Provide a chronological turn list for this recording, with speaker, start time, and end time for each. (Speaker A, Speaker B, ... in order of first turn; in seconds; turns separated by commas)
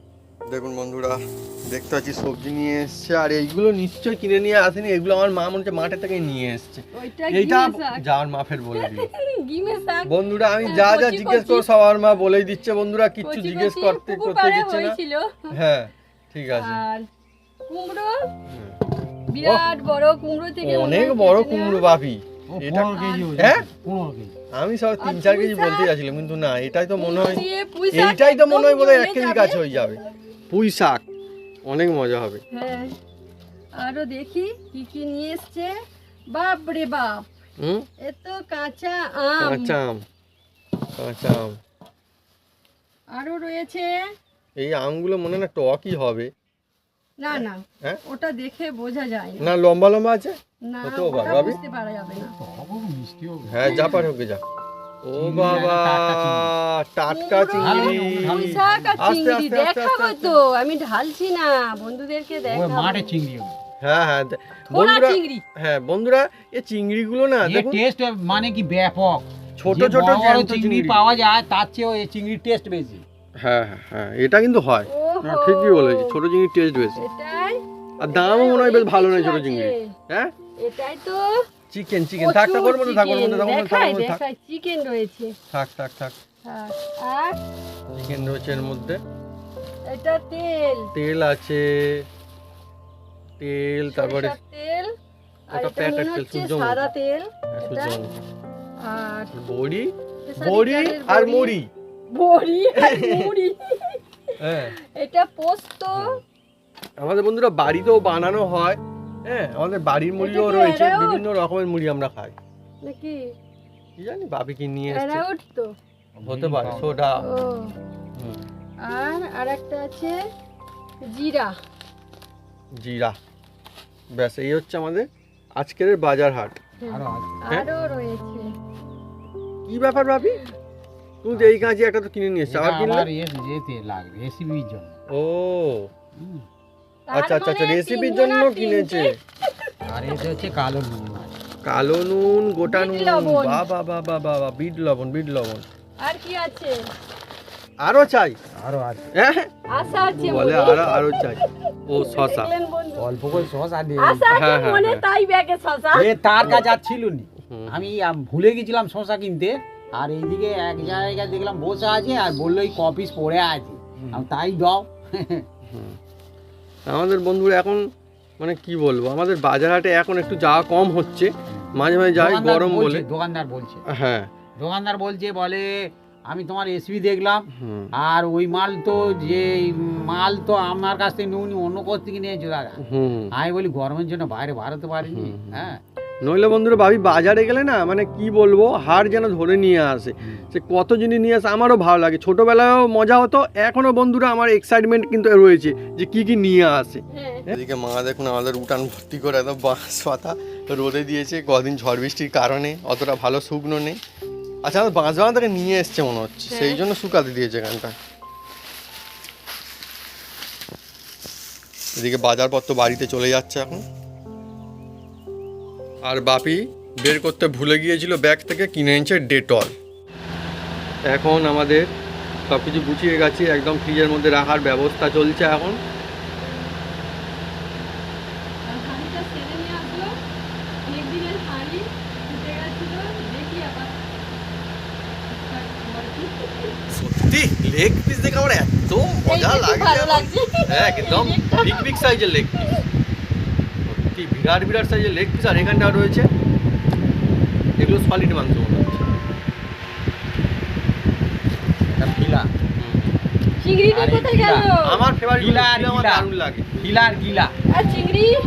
Speaker A: 0.5-9.1, Speaker B: 6.9-8.0, Speaker B: 8.8-10.1, Speaker A: 10.1-15.0, Speaker B: 10.6-11.7, Speaker B: 13.2-15.5, Speaker A: 15.5-16.8, Speaker B: 16.5-17.1, Speaker B: 17.7-18.2, Speaker A: 18.5-18.8, Speaker B: 19.3-21.9, Speaker A: 20.6-23.7, Speaker C: 22.5-24.3, Speaker B: 22.9-23.3, Speaker A: 24.5-27.4, Speaker B: 25.0-25.9, Speaker B: 27.0-30.0, Speaker A: 27.9-30.0, Speaker A: 30.5-31.0, Speaker A: 31.7-32.4, Speaker B: 32.5-32.9, Speaker B: 33.8-35.7, Speaker B: 36.3-37.3, Speaker A: 37.6-37.9, Speaker B: 38.0-39.7, Speaker A: 39.4-40.0, Speaker A: 41.0-41.6, Speaker B: 43.2-44.0, Speaker A: 44.6-46.3, Speaker B: 47.2-49.4, Speaker A: 47.3-48.0, Speaker A: 49.4-51.6, Speaker B: 50.6-52.3, Speaker C: 52.3-54.1, Speaker A: 53.5-54.4, Speaker B: 53.6-54.0, Speaker A: 55.0-60.4, Speaker C: 55.2-56.5, Speaker B: 57.1-63.0, Speaker C: 57.6-59.0, Speaker C: 62.5-63.6, Speaker A: 63.8-67.8, Speaker B: 64.7-65.4, Speaker C: 67.5-73.0, Speaker A: 69.6-71.0, Speaker A: 73.4-77.0, Speaker B: 74.9-76.2, Speaker B: 77.0-79.9, Speaker A: 78.0-80.3, Speaker B: 80.6-81.2, Speaker A: 81.7-84.2, Speaker B: 82.2-85.3, Speaker A: 85.5-86.2, Speaker B: 86.5-87.4, Speaker A: 87.9-89.0, Speaker B: 89.9-90.9, Speaker A: 90.9-92.0, Speaker A: 93.4-94.4, Speaker B: 93.9-94.9, Speaker A: 95.5-96.9, Speaker B: 95.5-98.0, Speaker A: 97.5-98.1, Speaker B: 98.8-99.3, Speaker A: 99.3-101.7, Speaker B: 100.3-101.6, Speaker B: 102.1-106.1, Speaker A: 102.8-103.3, Speaker A: 104.4-104.7, Speaker A: 107.0-112.4, Speaker B: 110.2-111.2, Speaker B: 112.8-113.2, Speaker A: 114.0-115.2, Speaker B: 114.9-115.7, Speaker C: 116.2-117.0, Speaker A: 116.3-117.2, Speaker B: 117.2-117.7, Speaker A: 118.2-118.4, Speaker B: 118.8-120.2, Speaker B: 121.0-121.5, Speaker A: 122.8-123.2, Speaker A: 124.2-126.6, Speaker B: 126.8-128.5, Speaker C: 126.9-127.4, Speaker A: 129.7-130.4, Speaker B: 130.2-130.5, Speaker A: 131.2-133.1, Speaker C: 131.3-131.7, Speaker C: 132.5-135.0, Speaker A: 135.1-135.9, Speaker C: 136.2-136.4, Speaker B: 137.1-140.2, Speaker A: 137.1-139.1, Speaker C: 139.8-141.3, Speaker A: 141.7-145.7, Speaker B: 142.7-143.6, Speaker B: 146.0-146.8, Speaker A: 147.8-148.4, Speaker C: 148.6-149.1, Speaker A: 149.2-149.5, Speaker B: 149.7-153.1, Speaker A: 150.2-152.5, Speaker C: 153.0-154.2, Speaker B: 154.0-156.1, Speaker A: 154.3-155.0, Speaker C: 155.9-165.4, Speaker A: 157.5-157.9, Speaker A: 164.0-164.2, Speaker A: 165.7-166.0, Speaker A: 166.9-167.8, Speaker A: 168.4-173.1, Speaker C: 171.5-173.8, Speaker A: 173.9-174.3, Speaker C: 174.6-175.7, Speaker C: 176.3-177.5, Speaker A: 177.6-177.9, Speaker C: 178.0-182.8, Speaker A: 182.8-183.3, Speaker C: 183.3-185.8, Speaker A: 185.0-185.7, Speaker A: 186.2-204.0, Speaker B: 197.1-197.5, Speaker A: 204.7-207.9, Speaker B: 206.5-206.8, Speaker A: 212.0-213.8, Speaker A: 216.1-219.7, Speaker A: 221.1-221.8, Speaker A: 222.5-225.8, Speaker B: 228.7-230.1, Speaker B: 230.8-233.9, Speaker B: 235.3-236.8, Speaker A: 236.9-242.8, Speaker B: 239.3-242.1, Speaker A: 243.9-246.3, Speaker A: 247.8-249.1, Speaker C: 251.9-252.5, Speaker A: 252.8-253.2, Speaker B: 253.6-255.0, Speaker C: 253.9-254.7, Speaker A: 254.8-256.7, Speaker C: 255.4-256.3, Speaker C: 256.8-257.5, Speaker B: 257.7-258.4